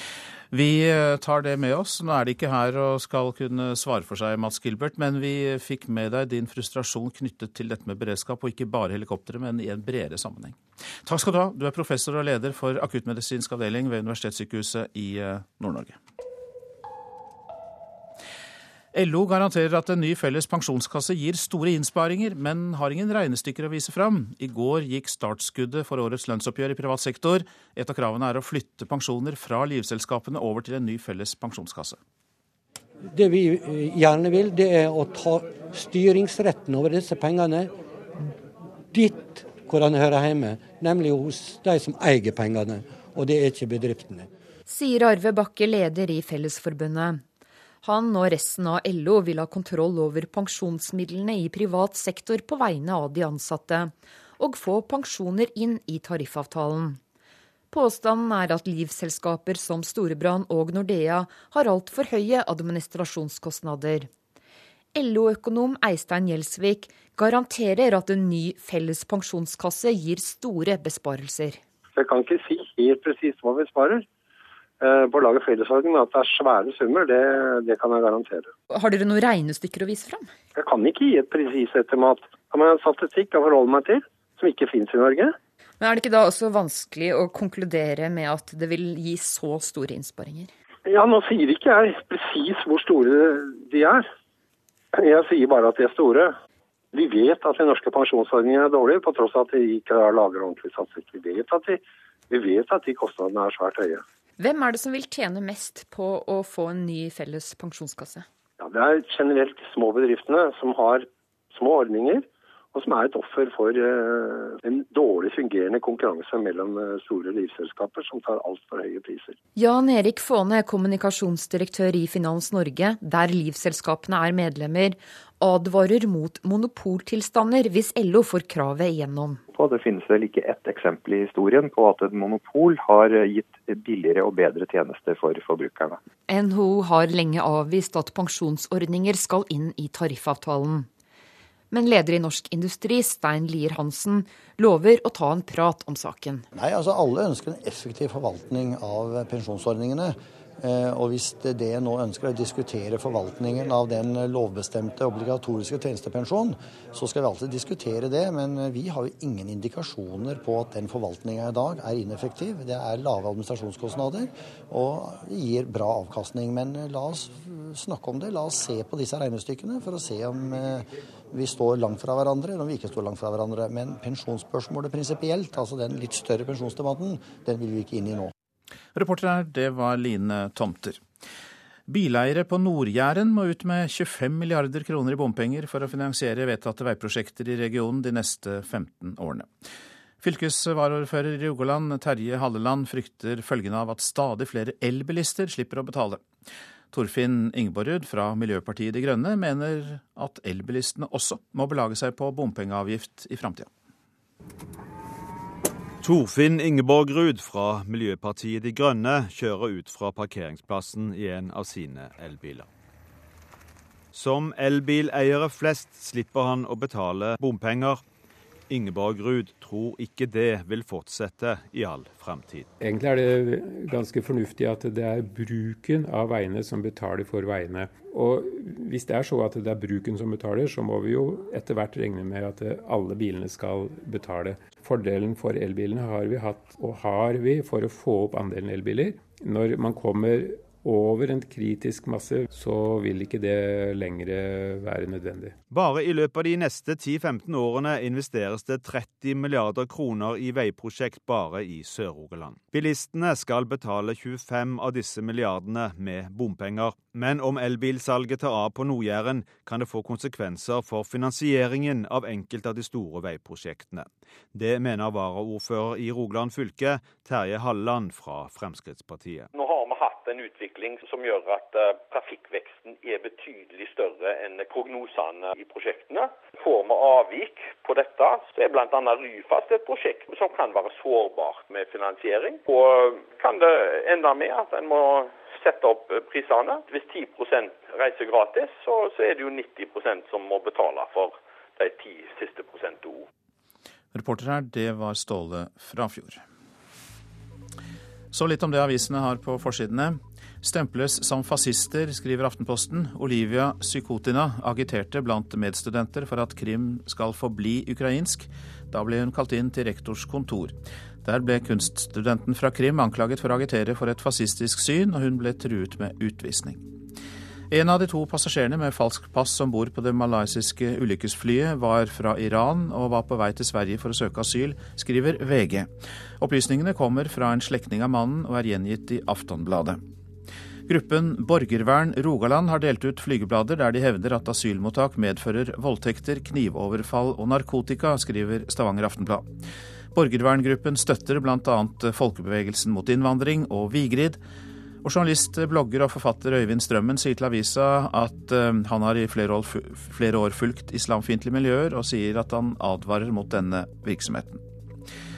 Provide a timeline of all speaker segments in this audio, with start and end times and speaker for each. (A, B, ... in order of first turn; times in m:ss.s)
0:00.5-0:16.0 A
0:18.9-0:32.0 A
0:33.1-0:37.7 B
0:38.9-0:44.3 B
0:44.7-0:47.2 C
0:47.8-0:57.0 C
0:57.7-1:04.1 C
1:04.9-1:11.6 C
1:12.0-1:14.0 D
1:14.8-1:18.5 D
1:18.7-1:20.3 C
1:20.6-1:25.4 D
1:25.8-1:30.5 C
1:30.9-1:34.0 D
1:35.0-1:36.3 D
1:36.9-1:44.0 D
1:44.4-1:48.3 C
1:48.6-1:59.4 D
1:59.6-2:09.4 C
2:09.5-2:16.0 E
2:16.3-2:20.9 C
2:21.7-2:26.5 C
2:26.5-2:58.3 F
2:59.0-3:01.0 A
3:01.9-3:09.5 A
3:10.2-3:16.2 A
3:16.9-3:23.7 A
3:26.0-3:32.7 G
3:34.1-3:38.0 G
3:38.7-3:42.7 G
3:42.8-4:05.5 H
4:05.7-4:29.5 G
4:29.5-4:53.2 I
4:54.1-4:56.4 A
4:58.3-5:16.9 A
5:17.7-5:30.0 A
5:30.9-5:39.5 A
5:40.1-5:44.4 A
5:45.0-5:54.6 A